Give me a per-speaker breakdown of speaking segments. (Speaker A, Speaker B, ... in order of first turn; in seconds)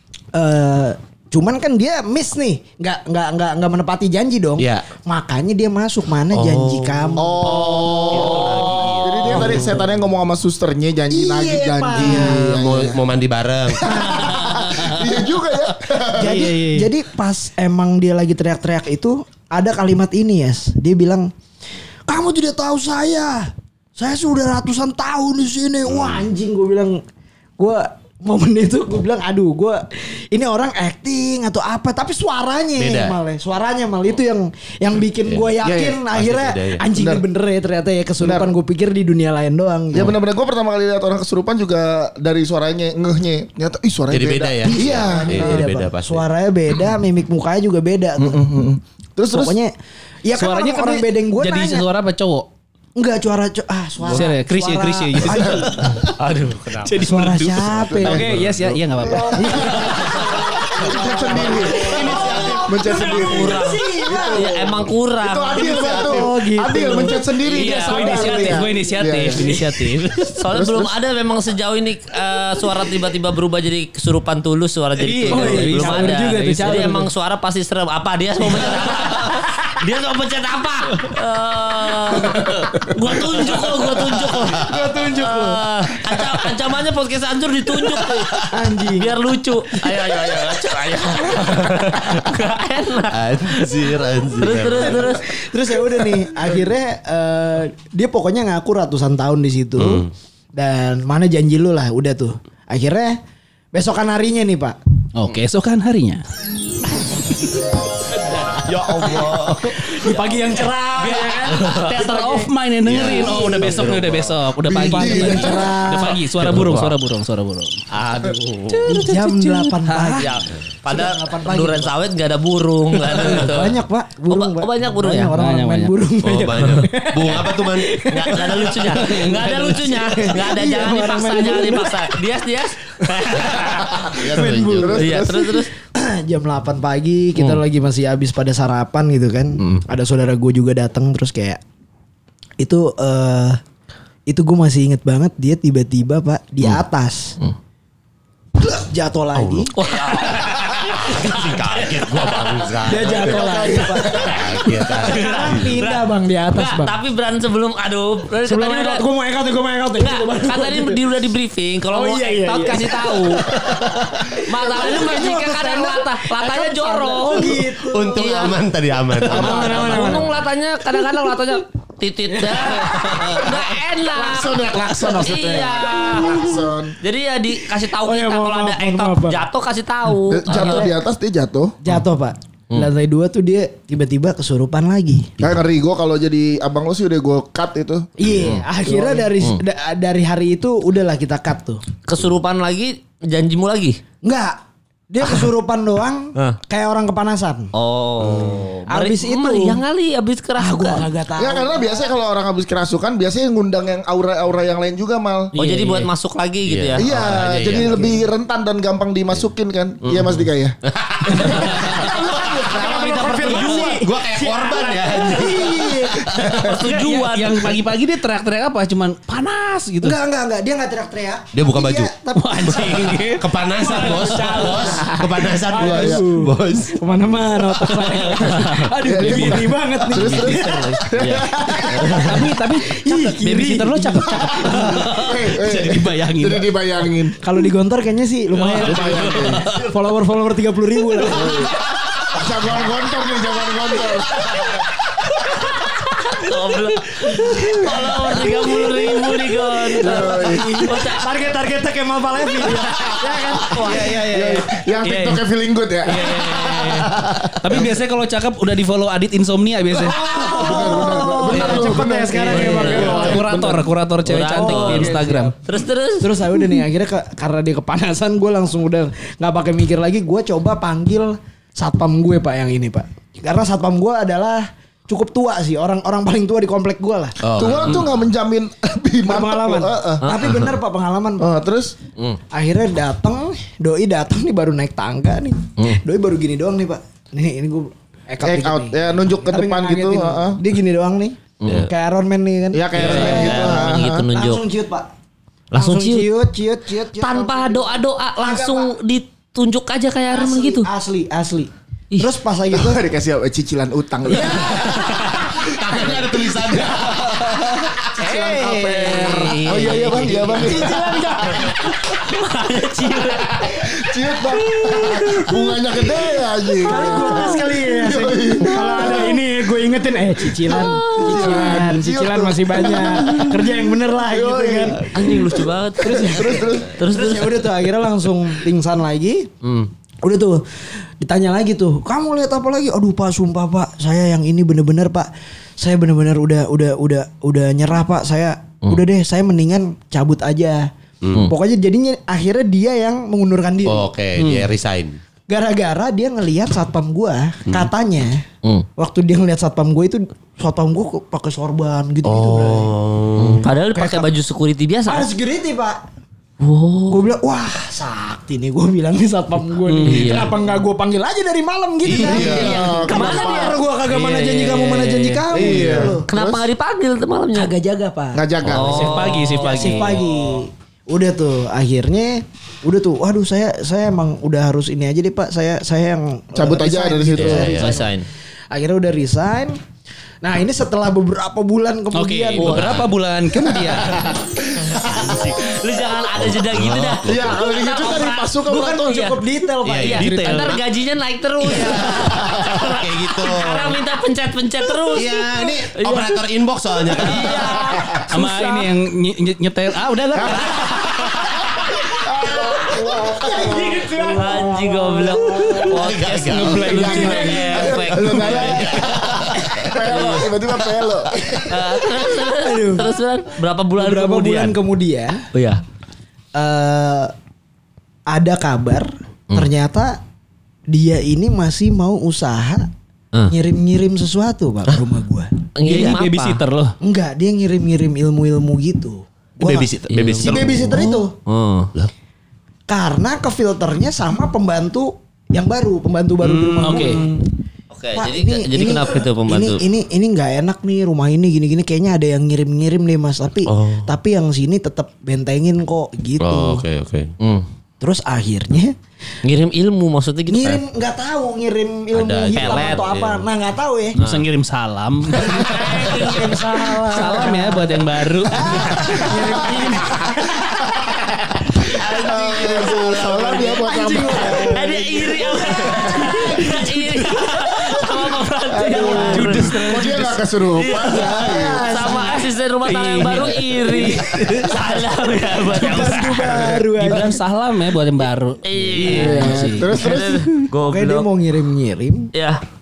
Speaker A: 0.3-7.6, 8.2-8.6, 9.2-9.7, 11.1-12.7, 13.8-14.9, 16.2-21.3, 22.1-27.0, 27.6-40.1, 44.6-48.5, 49.3-49.7, 50.2-51.9, 53.0-56.0, 57.0-58.3, 59.3-64.9, 65.5-68.7, 69.3-69.8, 75.3-77.1, 84.5-85.6, 88.5-89.1, 90.8-91.7, 94.7-103.2, 103.7-104.8, 108.9-112.5, 113.0-113.8, 114.7-116.3, 118.9-120.3, 120.9-122.0, 123.1-132.3, 133.1-141.6, 142.6-143.6, 144.3-147.4, 148.6-149.8, 152.8-156.9, 158.4-161.0, 161.9-168.3, 169.3-170.4, 172.3-173.5, 175.3-176.6, 177.8-179.4, 180.5-180.9, 181.8-185.3, 188.2-191.8, 194.2-197.7, 198.9-199.8, 200.6-202.1, 211.4-216.4, 220.0-223.2, 223.8-225.1, 225.6-235.1, 237.4-241.6, 247.3-249.1, 249.9-253.9, 260.0-263.8, 264.4-265.5, 266.2-277.4, 279.2-281.5, 282.5-295.1, 295.8-298.9, 300.3-303.0, 304.3-305.6, 308.3-309.6, 310.5-312.0, 315.1-315.4, 316.8-325.0, 326.1-329.5, 330.2-344.1, 345.5-348.5, 349.0-353.0, 353.9-354.3, 355.1-356.0, 357.1-366.3, 367.5-368.4, 369.2-379.8, 380.4-383.0, 388.6-390.6, 397.2-398.9, 402.5-406.0, 411.4-413.2, 413.9-415.5, 416.6-417.3, 418.3-420.2, 420.9-422.9, 423.5-425.5, 427.0-431.3, 432.9-437.5, 438.1-446.8, 448.0-448.9, 450.5-454.2, 455.4-460.6, 463.5-467.4, 471.0-472.5, 475.7-477.4, 480.7-482.3
Speaker B: 4.6-4.8, 6.3-9.8, 11.9-14.3, 32.8-33.2, 35.2-35.5, 36.1-36.9, 44.1-46.2, 57.6-58.5, 61.3-62.7, 88.1-88.5, 91.2-91.7, 93.1-95.2, 99.8-100.1, 112.8-114.1, 116.4-117.0, 126.2-128.0, 134.0-135.1, 149.4-155.8, 167.8-170.3, 188.2-188.7, 198.2-198.8, 206.7-208.2, 210.0-212.7, 213.5-216.7, 221.5-222.1, 222.7-227.0, 277.4-278.3, 291.6-291.9, 293.0-293.4, 304.9-308.1, 309.7-310.8, 341.2-341.5, 343.9-345.2, 352.2-353.6, 362.1-362.9, 377.4-377.9, 382.6-382.9, 386.4-387.6, 389.8-390.8, 391.6-394.0, 395.1-398.1, 405.9-407.4, 408.2-410.4, 429.6-431.1, 443.7-444.1, 446.4-447.3, 452.1-453.5, 462.1-463.9
Speaker C: 7.2-13.0, 13.7-16.5, 35.6-36.0, 36.9-37.2, 38.2-38.5, 39.9-45.7, 48.2-49.5, 55.3-55.7, 57.8-59.9, 60.8-63.6, 64.2-64.5, 65.2-69.6, 70.5-70.9, 114.7-115.9, 134.2-135.6, 153.1-154.8, 169.2-170.3, 173.4-177.0, 180.3-181.8, 185.4-188.1, 188.8-189.3, 201.4-205.6, 207.0-210.7, 211.3-212.2, 212.7-213.3, 216.4-216.8, 225.7-226.2, 228.6-232.5, 234.4-237.4, 238.7-239.7, 241.3-241.7, 242.3-244.4, 250.0-250.7, 253.9-258.0, 260.2-263.8, 277.6-280.2, 281.4-281.9, 288.4-290.6, 292.7-294.3, 302.7-311.7, 313.7-319.4, 320.6-327.0, 362.1-363.8, 365.5-366.7, 368.3-369.3, 376.6-377.7, 387.3-389.3, 397.9-398.3, 400.4-400.7, 402.0-404.1, 406.9-411.5, 459.3-459.8, 461.9-465.1, 465.8-466.7, 468.7-471.9, 479.1-480.5
Speaker D: 8.1-9.1, 55.8-57.0, 62.9-66.3, 67.6-68.3, 70.3-95.3, 108.5-110.6, 111.5-111.9, 113.7-114.3, 117.9-119.1, 120.1-125.3, 128.1-134.2, 135.0-135.7, 137.4-137.6, 139.6-139.8, 149.8-152.8, 155.0-159.0, 160.0-163.6, 164.4-168.6, 169.4-180.9, 192.1-194.0, 197.7-201.1, 205.5-207.1, 207.6-208.1, 212.6-214.0, 216.5-217.8, 230.3-232.3, 245.6-251.5, 252.6-254.1, 262.4-263.5, 264.2-266.3, 280.2-280.6, 291.6-291.9, 293.0-294.6, 295.7-296.3, 297.2-300.9, 304.5-305.5, 308.2-313.9, 314.9-315.5, 316.9-317.6, 318.8-319.1, 320.7-321.8, 325.1-327.7, 329.6-329.9, 353.4-355.3, 356.6-357.3, 360.0-360.5, 362.2-367.7, 368.7-370.1, 377.6-378.3, 384.8-389.4, 390.0-395.4, 396.0-396.3, 397.2-397.9, 400.5-401.7, 404.2-410.5, 411.6-414.8, 415.5-415.8, 425.8-426.6, 430.1-431.9, 437.9-439.8, 447.4-447.7, 449.4-450.8, 452.5-453.1, 454.2-454.5, 455.4-457.7, 458.9-459.3, 461.9-462.8, 464.7-470.0, 470.7-476.8, 478.6-481.3, 482.3-482.6
Speaker E: 16.2-16.9, 50.4-52.5, 54.0-56.1, 56.9-60.6, 61.3-62.7, 67.5-70.4, 75.0-77.0, 105.2-106.2, 111.0-117.8, 118.7-120.3, 125.3-125.9, 129.0-130.2, 205.5-206.1, 211.5-212.1, 212.7-214.0, 216.7-220.2, 222.3-225.3, 227.7-230.9, 232.2-236.7, 238.5-239.9, 253.8-255.4, 256.1-260.3, 261.5-262.0, 262.6-265.5, 308.5-309.2, 314.9-315.2, 344.4-344.7, 359.9-360.5, 368.8-370.2, 382.1-384.2, 390.3-390.8, 398.3-401.0, 406.4-408.7, 425.8-427.0, 436.4-437.3, 454.1-455.8, 457.0-460.0, 469.0-470.4, 472.9-474.8, 476.6-480.0